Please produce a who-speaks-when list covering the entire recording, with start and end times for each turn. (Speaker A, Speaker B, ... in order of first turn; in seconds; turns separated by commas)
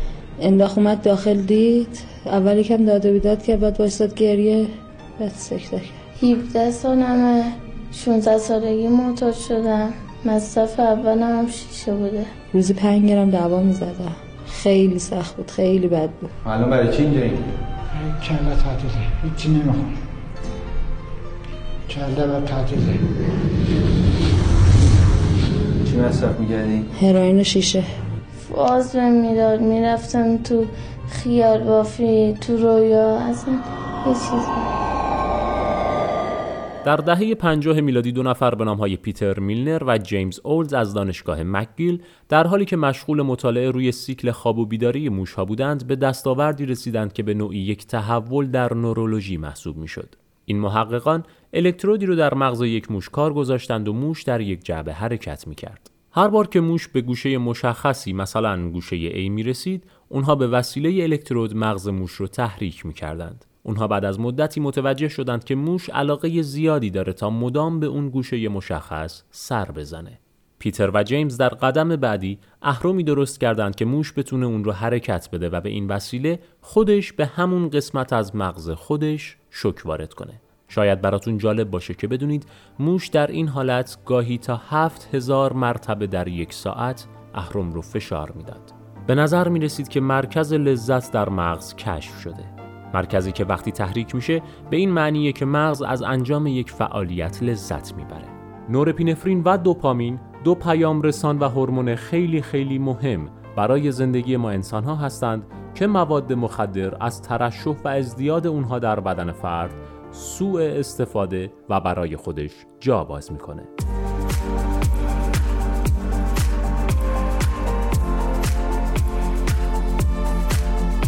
Speaker A: 0.4-6.0, Speaker B: 6.2-12.3, Speaker A: 12.5-16.3, Speaker C: 16.4-17.4, Speaker D: 17.9-20.0, Speaker D: 21.9-23.0, Speaker C: 25.8-26.9, Speaker A: 26.9-27.9, Speaker B: 28.4-34.7, Speaker E: 36.8-113.7